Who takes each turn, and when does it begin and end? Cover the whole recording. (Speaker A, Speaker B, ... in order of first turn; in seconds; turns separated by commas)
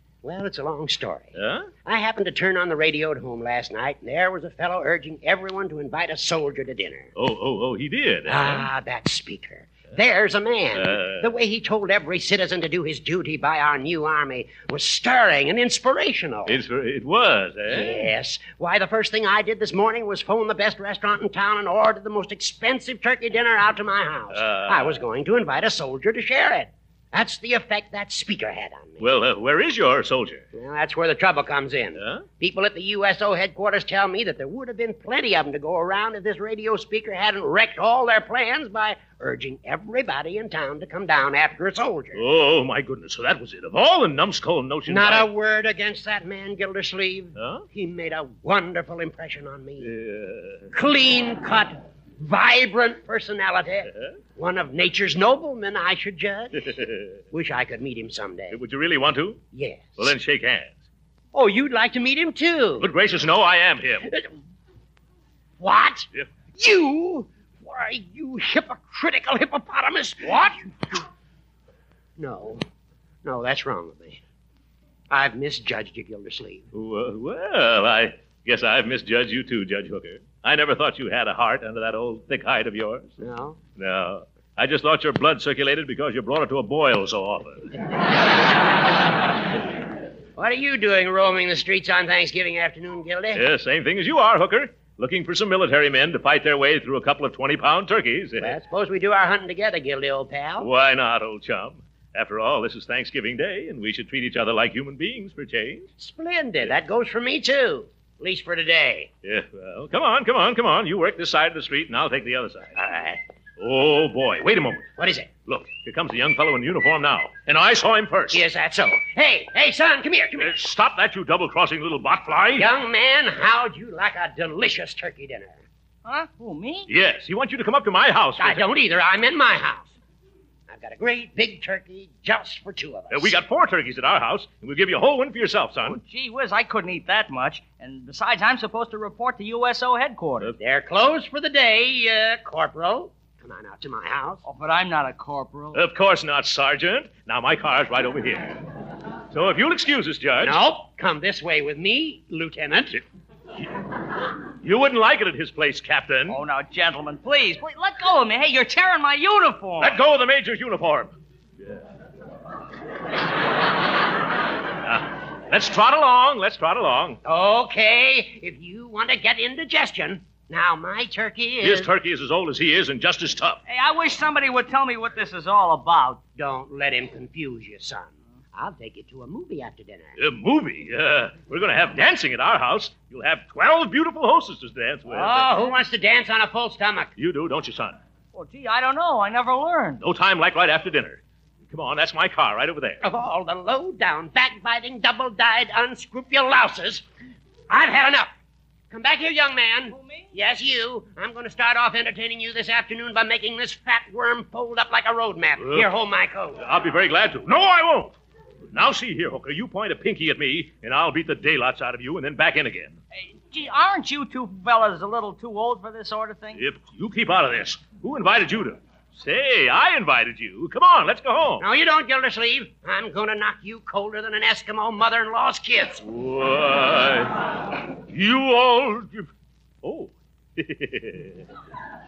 Speaker A: 0.2-1.3, Speaker B: 1.4-1.7, Speaker A: 1.9-7.1, Speaker B: 7.2-8.7, Speaker A: 8.3-16.6, Speaker B: 10.8-11.3, Speaker B: 16.4-18.1, Speaker A: 17.7-29.0, Speaker B: 24.3-25.0, Speaker B: 29.0-30.4, Speaker A: 30.5-42.2, Speaker B: 32.0-32.2, Speaker B: 42.1-45.3, Speaker A: 44.9-49.9, Speaker B: 47.4-47.7, Speaker B: 49.8-50.7, Speaker A: 50.7-56.6, Speaker B: 56.6-57.2, Speaker A: 57.3-58.6, Speaker B: 58.5-59.4, Speaker A: 59.5-60.0, Speaker B: 60.0-60.7, Speaker A: 61.3-62.9, Speaker B: 62.8-64.1, Speaker A: 65.6-71.0, Speaker A: 72.2-72.6, Speaker A: 73.2-74.2, Speaker A: 75.1-76.7, Speaker B: 76.7-83.1, Speaker A: 83.2-83.6, Speaker B: 83.8-87.7, Speaker A: 90.4-93.4, Speaker B: 93.3-98.6, Speaker A: 98.4-100.7, Speaker B: 100.6-105.9, Speaker A: 106.0-109.1, Speaker B: 109.2-112.8, Speaker A: 112.8-113.2, Speaker B: 113.6-114.9, Speaker A: 115.0-115.3, Speaker B: 115.5-118.5, Speaker A: 118.3-120.6, Speaker B: 120.4-122.7, Speaker A: 122.6-125.6, Speaker C: 126.0-126.9, Speaker B: 126.9-128.7, Speaker A: 128.4-130.0, Speaker A: 130.7-133.3, Speaker B: 133.1-136.0, Speaker C: 135.8-140.5, Speaker A: 140.5-144.4, Speaker C: 144.4-145.8, Speaker B: 145.7-148.6, Speaker B: 149.3-150.6, Speaker A: 150.4-153.0, Speaker B: 154.6-156.4, Speaker C: 156.3-160.0, Speaker B: 159.8-161.1, Speaker B: 164.8-167.2, Speaker A: 167.2-171.9, Speaker B: 171.6-173.6, Speaker C: 173.7-176.2, Speaker A: 176.3-180.1, Speaker B: 180.2-185.6, Speaker A: 185.1-187.1, Speaker B: 187.2-188.0, Speaker C: 188.3-190.0, Speaker B: 190.0-193.0, Speaker A: 193.0-197.0, Speaker A: 197.7-198.3, Speaker A: 198.9-206.6, Speaker C: 199.9-200.3, Speaker B: 205.6-205.9, Speaker B: 206.6-208.2, Speaker B: 208.7-213.0, Speaker C: 213.2-216.6, Speaker B: 216.6-221.7, Speaker A: 221.6-226.0, Speaker B: 226.1-227.5, Speaker B: 228.1-229.3, Speaker B: 229.8-231.5